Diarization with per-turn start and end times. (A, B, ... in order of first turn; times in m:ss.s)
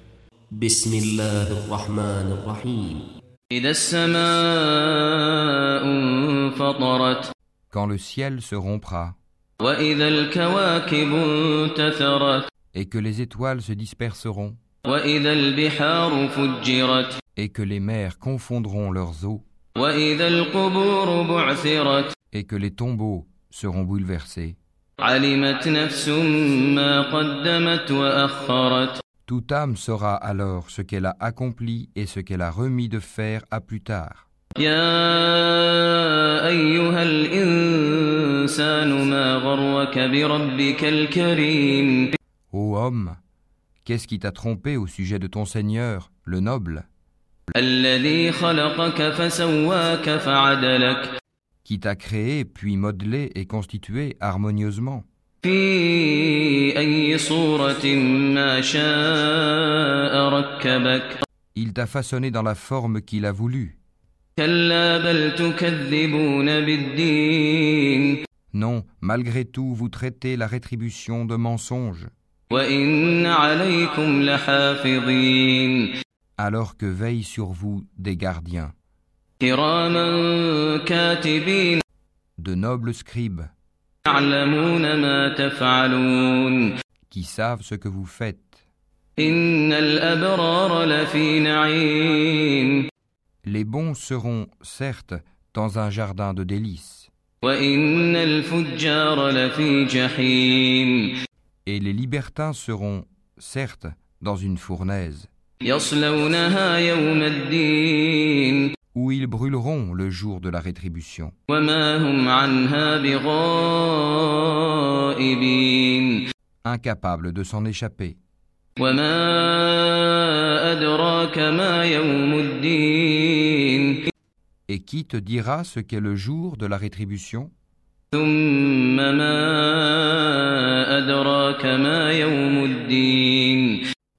0:00.7-0:03.0 A
0:03.5-0:07.3 B
0:07.7-0:09.2 C
0:09.6-0:12.5 B
0:12.7-0:14.6 C
0:14.8-0:17.2 B
0:17.4-0:19.4 C
0:19.8-0:22.2 B
0:22.3-0:24.6 C
0:25.0-0:29.0 B
0:29.3-0:34.3 C
0:34.6-0:42.2 B
0:42.5-0:43.2 C
0:43.8-0:46.9 C
0:47.6-0:51.1 B
0:51.6-0:55.1 C
0:55.4-1:01.2 B
1:01.6-1:03.8 C
1:04.4-1:08.2 B
1:08.5-1:12.1 C
1:12.5-1:15.9 B
1:16.4-1:18.7 C
1:19.4-1:21.8 B
1:22.4-1:23.5 C
1:24.0-1:26.7 B
1:27.1-1:28.5 C
1:29.2-1:32.9 B
1:33.5-1:37.1 C
1:37.4-1:41.1 B
1:41.7-1:45.3 C
1:45.6-1:48.7 B
1:48.9-1:51.3 C
1:51.5-1:56.2 B
1:56.6-1:58.2 C
1:58.8-2:04.1 B
2:04.7-2:07.5 C
2:08.1-2:13.8 B